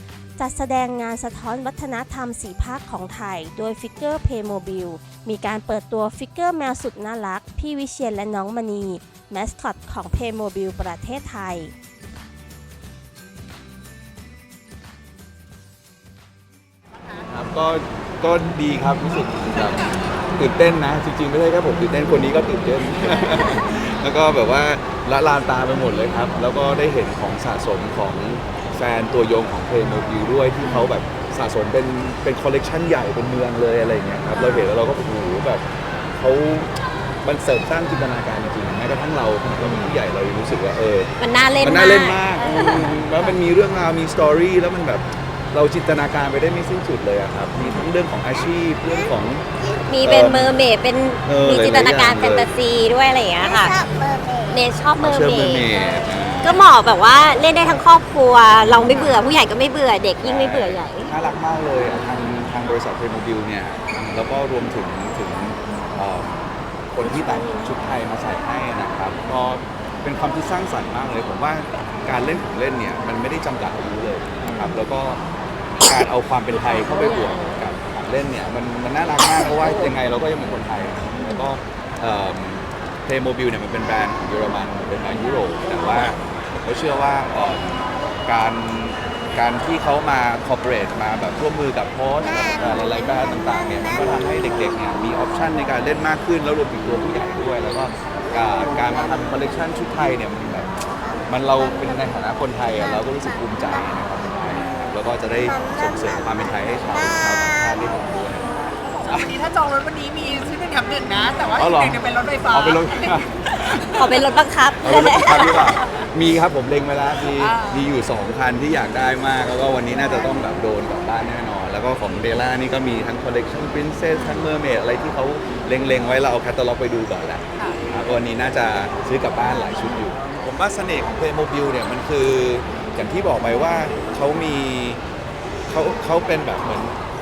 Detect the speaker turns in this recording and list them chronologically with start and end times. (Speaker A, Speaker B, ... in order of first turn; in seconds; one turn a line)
Speaker A: 0.4-11.7
Speaker B: 17.3-49.5
Speaker C: 30.6-30.9
Speaker C: 34.4-34.7
Speaker C: 39.6-39.9
Speaker C: 41.2-43.4
Speaker C: 49.9-53.9
Speaker B: 50.0-50.5
Speaker B: 51.2-52.5
Speaker C: 54.5-55.7
Speaker B: 55.0-56.6
Speaker C: 56.4-61.1
Speaker B: 58.7-59.2
Speaker B: 60.2-75.2
Speaker C: 67.0-67.7
Speaker C: 74.4-74.8
Speaker B: 75.8-108.5
Speaker C: 76.5-77.6
Speaker C: 79.2-79.9
Speaker C: 81.2-81.5
Speaker C: 85.8-86.1
Speaker D: 108.8-114.0
Speaker B: 109.0-109.4
Speaker B: 111.6-114.1
Speaker C: 114.0-115.8
Speaker B: 114.8-135.0
Speaker D: 117.4-117.8
Speaker B: 135.7-136.9